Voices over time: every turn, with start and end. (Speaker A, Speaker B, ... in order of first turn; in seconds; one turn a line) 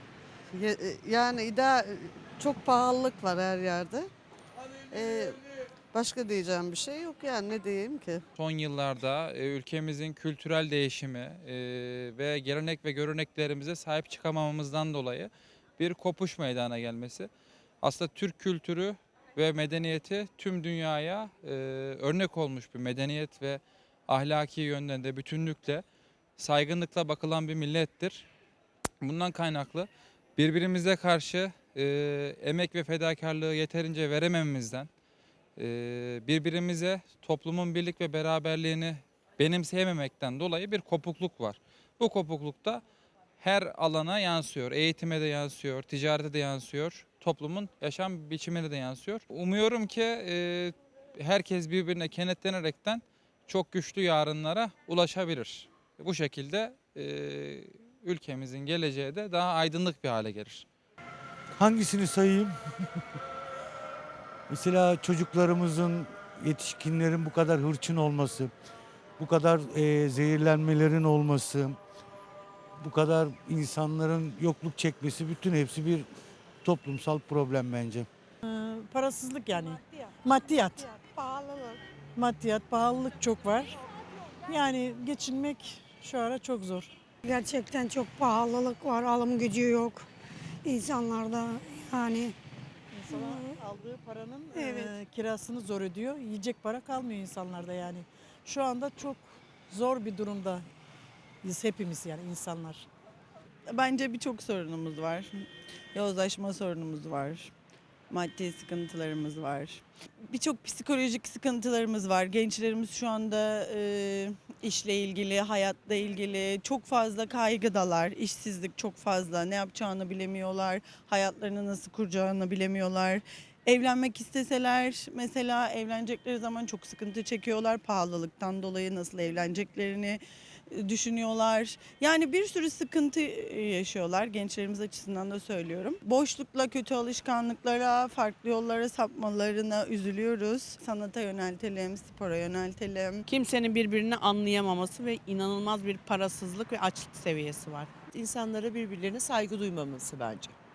Speaker A: 0.5-4.1
Speaker A: 4.9-5.3
Speaker A: 5.9-8.2
Speaker B: 8.4-17.3
Speaker B: 17.8-25.8
Speaker B: 26.4-28.2
Speaker B: 29.0-34.9
Speaker B: 35.6-42.8
Speaker B: 43.4-60.6
Speaker C: 61.6-62.5
Speaker C: 64.5-68.5
Speaker C: 69.2-71.8
Speaker C: 72.8-76.1
Speaker C: 76.6-78.1
Speaker D: 78.4-80.9
Speaker E: 80.9-81.8
Speaker D: 82.1-83.8
Speaker D: 84.4-86.9
Speaker E: 87.2-90.0
Speaker E: 90.6-92.3
Speaker D: 92.9-100.7
Speaker E: 93.1-93.5
Speaker E: 94.5-94.9
Speaker D: 101.4-102.8
Speaker F: 103.7-107.5
Speaker F: 108.1-143.2
Speaker G: 143.3-147.9
Speaker H: 148.1-150.5